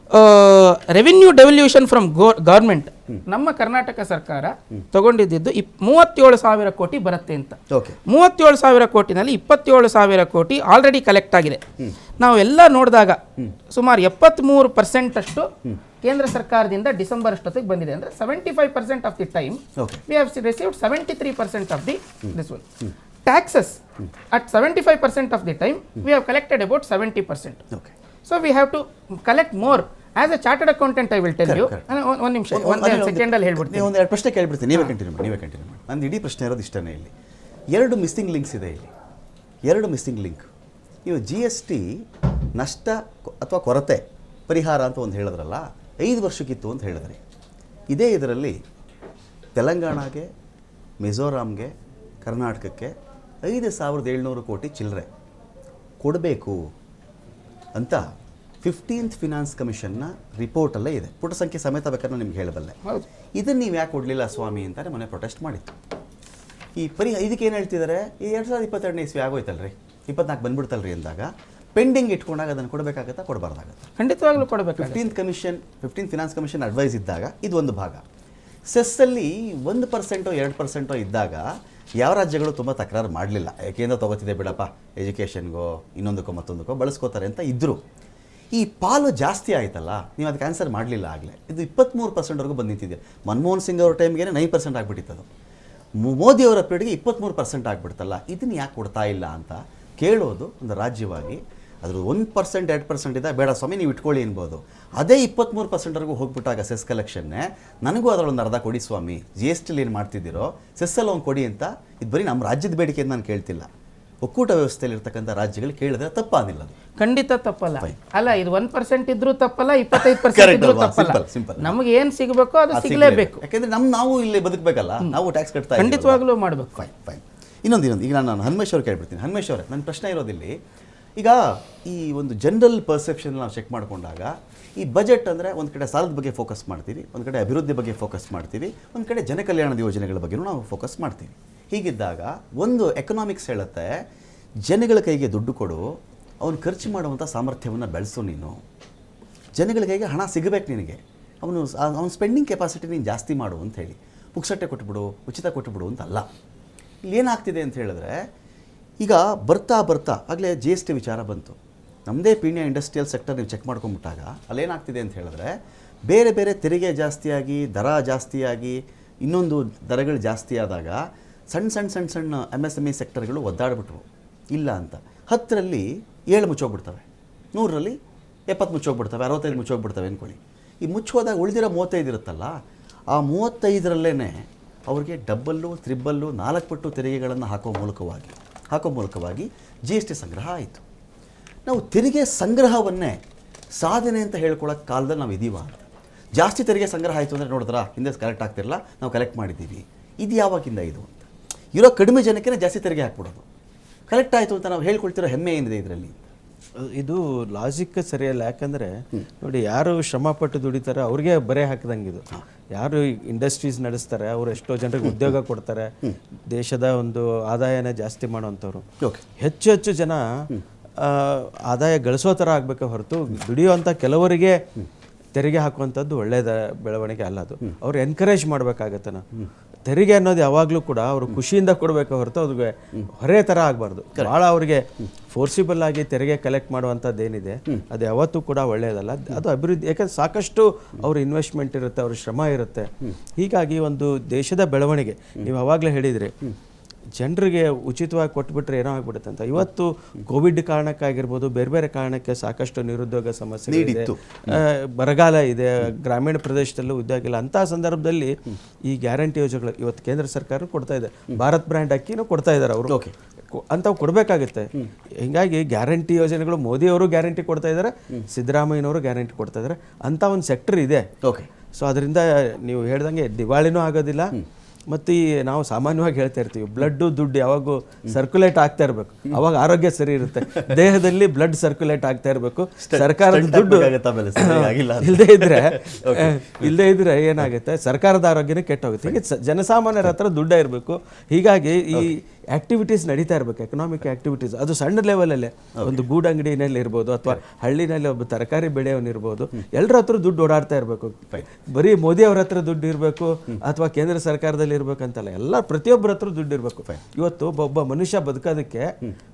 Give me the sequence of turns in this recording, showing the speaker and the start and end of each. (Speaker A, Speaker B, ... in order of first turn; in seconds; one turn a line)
Speaker A: 0.1-11.6
Speaker B: 7.7-8.0
Speaker A: 12.2-15.5
Speaker A: 16.0-22.6
Speaker B: 19.8-20.0
Speaker B: 22.3-22.9
Speaker A: 23.2-23.8
Speaker A: 24.3-27.7
Speaker A: 28.3-33.8
Speaker B: 31.4-31.9
Speaker B: 32.5-37.1
Speaker B: 37.7-38.9
Speaker B: 39.7-40.5
Speaker B: 41.0-42.0
Speaker B: 42.5-47.2
Speaker B: 47.9-48.6
Speaker B: 49.5-50.3
Speaker B: 51.0-51.7
Speaker B: 52.2-52.9
Speaker B: 53.4-55.1
Speaker B: 56.0-56.6
Speaker B: 57.7-58.0
Speaker B: 58.6-62.8
Speaker B: 63.4-65.7
Speaker B: 66.8-73.9
Speaker A: 74.0-75.0
Speaker B: 74.8-78.0
Speaker B: 78.7-81.4
Speaker B: 82.0-87.8
Speaker B: 88.5-95.2
Speaker B: 96.0-113.7
Speaker B: 114.2-116.7
Speaker A: 117.0-123.4
Speaker B: 119.9-121.8
Speaker B: 122.7-126.2
Speaker A: 125.8-126.7
Speaker B: 126.7-130.5
Speaker B: 131.2-144.0
Speaker B: 144.7-148.6
Speaker B: 149.6-156.3
Speaker B: 157.1-158.2
Speaker B: 159.0-165.5
Speaker B: 166.1-171.0
Speaker B: 171.5-177.9
Speaker B: 178.5-182.5
Speaker B: 183.1-190.8
Speaker B: 191.7-193.2
Speaker B: 193.8-195.8
Speaker B: 196.3-203.4
Speaker B: 204.1-206.3
Speaker C: 206.8-215.9
Speaker C: 216.5-218.8
Speaker C: 219.4-220.2
Speaker C: 221.0-224.6
Speaker C: 225.3-229.2
Speaker C: 229.8-246.3
Speaker C: 247.2-262.9
Speaker B: 253.7-254.6
Speaker B: 262.9-263.1
Speaker C: 263.5-264.7
Speaker C: 265.2-271.1
Speaker B: 271.2-271.5
Speaker C: 271.7-274.3
Speaker C: 274.9-308.9
Speaker B: 282.8-286.7
Speaker B: 295.8-296.0